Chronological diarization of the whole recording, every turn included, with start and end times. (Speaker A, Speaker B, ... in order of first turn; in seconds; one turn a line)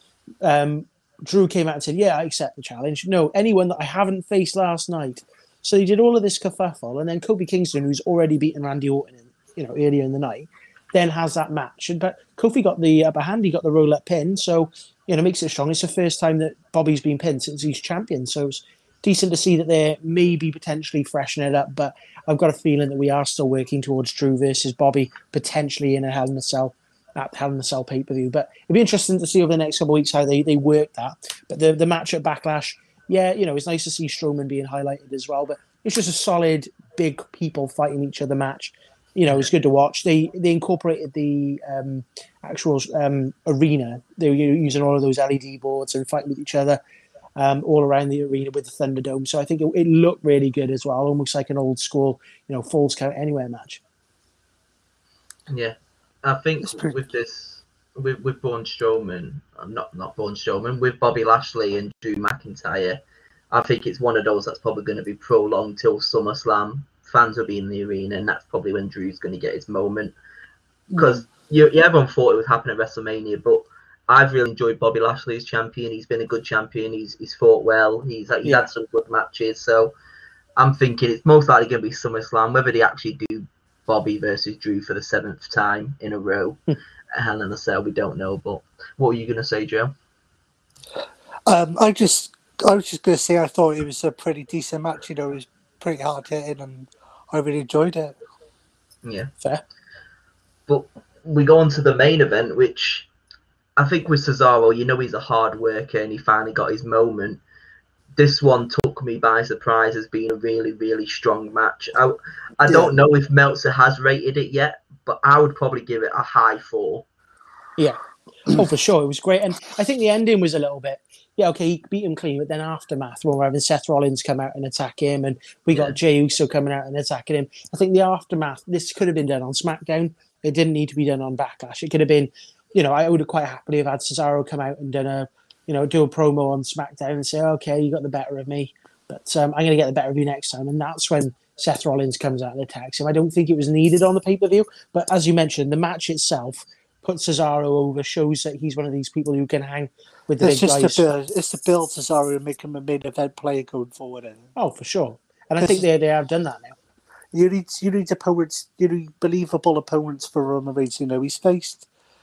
Speaker A: 0.4-46.8
Speaker A: 47.4-53.8
Speaker B: 55.5-70.1
Speaker C: 56.6-56.9
Speaker B: 70.9-79.9
Speaker B: 80.6-86.6
Speaker B: 87.1-89.9
Speaker C: 91.5-98.2
Speaker B: 99.0-99.3
Speaker B: 100.7-103.1
Speaker B: 103.8-107.4
Speaker B: 108.2-117.0
Speaker C: 112.7-112.9
Speaker A: 117.8-151.1
Speaker C: 150.4-154.5
Speaker A: 154.6-156.8
Speaker C: 155.6-155.8
Speaker C: 157.3-161.9